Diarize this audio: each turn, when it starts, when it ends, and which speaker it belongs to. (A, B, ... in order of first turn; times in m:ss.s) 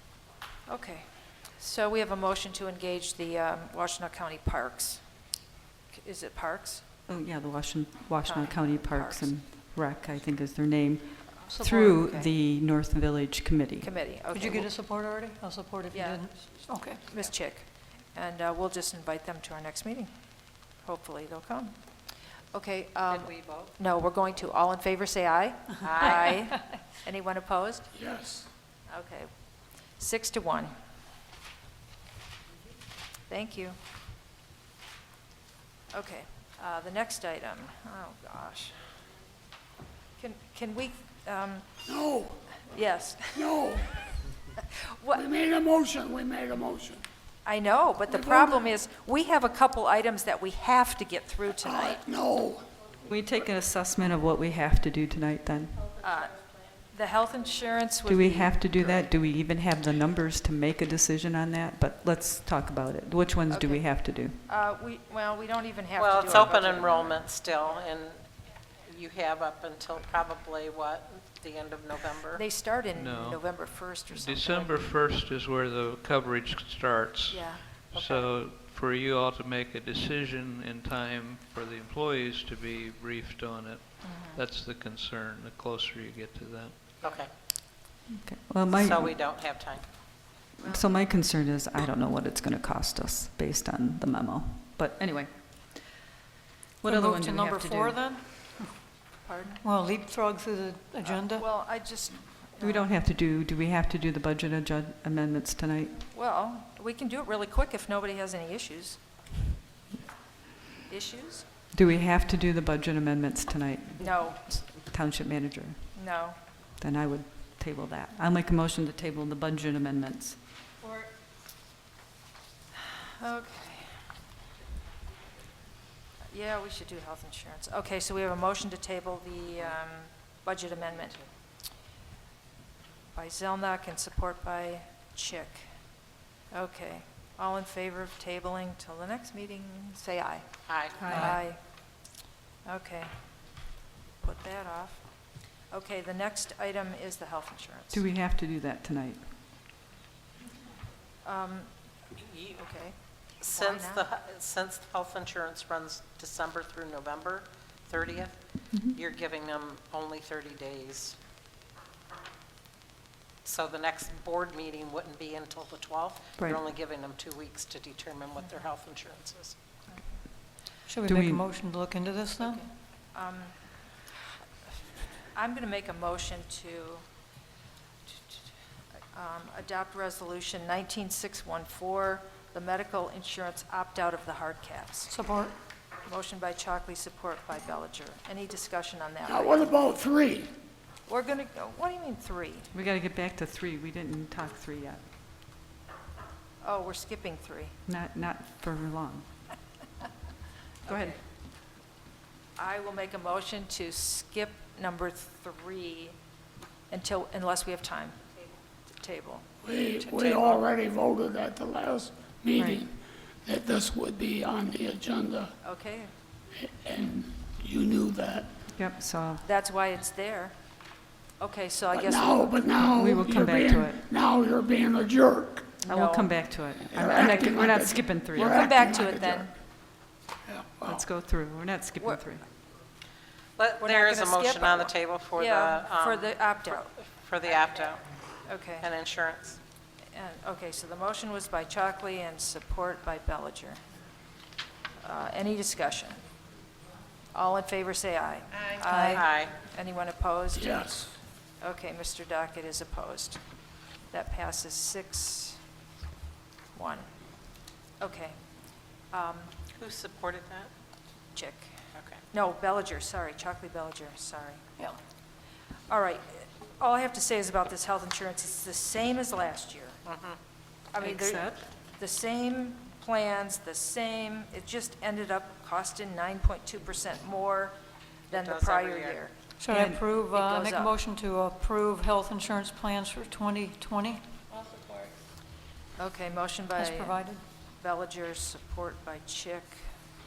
0:00.7-0:05.0 A
0:05.9-0:06.9 A
0:07.1-0:13.9 B
0:08.2-0:09.4 A
0:11.5-0:11.9 C
0:11.6-0:12.3 A
0:13.8-0:14.7 A
0:14.3-0:17.1 C
0:15.9-0:27.9 A
0:23.1-0:23.7 D
0:25.8-0:26.4 D
0:27.9-0:28.5 E
0:28.9-0:29.3 A
0:30.0-0:30.7 A
0:33.3-0:33.8 A
0:35.9-0:38.8 A
0:40.2-0:41.7 A
0:41.9-0:42.6 E
0:42.7-0:43.8 A
0:43.4-0:44.1 E
0:45.0-0:45.3 A
0:45.1-0:47.0 E
0:47.4-0:52.0 A
0:48.1-0:48.5 E
0:51.6-0:52.7 E
0:53.0-0:55.8 B
0:56.0-0:59.0 A
0:58.0-1:04.4 B
1:03.5-1:07.2 A
1:06.0-1:08.3 D
1:08.9-1:12.4 D
1:12.3-1:14.8 A
1:12.9-1:26.8 F
1:17.3-1:17.7 A
1:17.9-1:18.3 D
1:24.0-1:24.4 A
1:27.0-1:27.3 D
1:28.1-1:29.2 B
1:28.7-1:29.8 D
1:30.6-1:36.0 B
1:36.8-1:38.0 B
1:36.8-1:38.7 C
1:39.2-1:39.6 A
1:39.6-1:41.5 C
1:41.0-1:42.9 A
1:42.6-1:46.0 B
1:46.0-1:49.0 A
1:50.9-1:51.5 A
1:51.7-1:56.0 B
1:54.0-1:54.6 A
1:55.9-1:56.4 A
1:56.8-2:00.4 B
2:03.2-2:04.0 A
2:06.3-2:11.3 A
2:13.1-2:15.7 A
2:16.5-2:22.1 A
2:20.7-2:21.4 D
2:21.0-2:21.4 B
2:22.6-2:23.6 A
2:24.2-2:28.0 A
2:27.9-2:29.3 B
2:31.2-2:34.0 A
2:33.4-2:41.2 D
2:38.7-2:39.0 B
2:43.4-2:49.6 D
2:49.9-2:50.2 A
2:50.9-2:52.7 C
2:51.0-2:51.4 B
2:53.1-2:53.6 A
2:55.3-2:57.0 A
2:58.1-2:58.5 A
2:59.1-3:05.2 A
3:05.1-3:05.6 C
3:06.0-3:09.7 A
3:09.3-3:10.5 E
3:11.1-3:12.7 A
3:12.7-3:15.0 B
3:16.6-3:17.8 A
3:17.9-3:19.3 B
3:20.9-3:21.2 B
3:20.9-3:21.2 A
3:22.6-3:26.2 A
3:26.9-3:29.5 A
3:29.6-3:35.5 E
3:30.2-3:30.6 D
3:32.6-3:32.8 B
3:35.6-3:36.1 A
3:36.6-3:38.5 E
3:38.8-3:39.4 B
3:39.4-3:40.6 A
3:41.4-3:42.6 A
3:41.9-3:45.7 E
3:42.8-3:44.0 B
3:45.8-3:46.3 A
3:45.9-3:48.7 B
3:46.9-3:49.5 E
3:48.4-3:49.5 A
3:50.5-3:51.0 E
3:50.8-3:52.4 B
3:53.6-3:56.4 D
3:53.8-3:57.0 A
3:57.1-3:58.2 D
3:58.4-3:58.9 A
3:58.8-3:59.6 D
4:00.1-4:03.8 A
4:05.0-4:06.2 A
4:07.3-4:10.8 A
4:08.6-4:09.6 D
4:08.9-4:09.2 B
4:10.5-4:11.1 E
4:11.6-4:13.4 A
4:14.1-4:15.6 A
4:16.7-4:17.1 A
4:18.0-4:19.5 A
4:19.8-4:20.7 D
4:21.4-4:21.7 A
4:22.0-4:22.2 D
4:22.3-4:24.6 A
4:25.9-4:30.0 A
4:30.1-4:30.4 D
4:30.9-4:37.8 A
4:31.0-4:31.7 B
4:38.3-4:39.4 A
4:38.3-4:39.2 D
4:39.6-4:44.2 C
4:39.7-4:40.0 B
4:40.2-4:40.9 A
4:46.0-4:49.9 A
4:46.8-4:47.4 C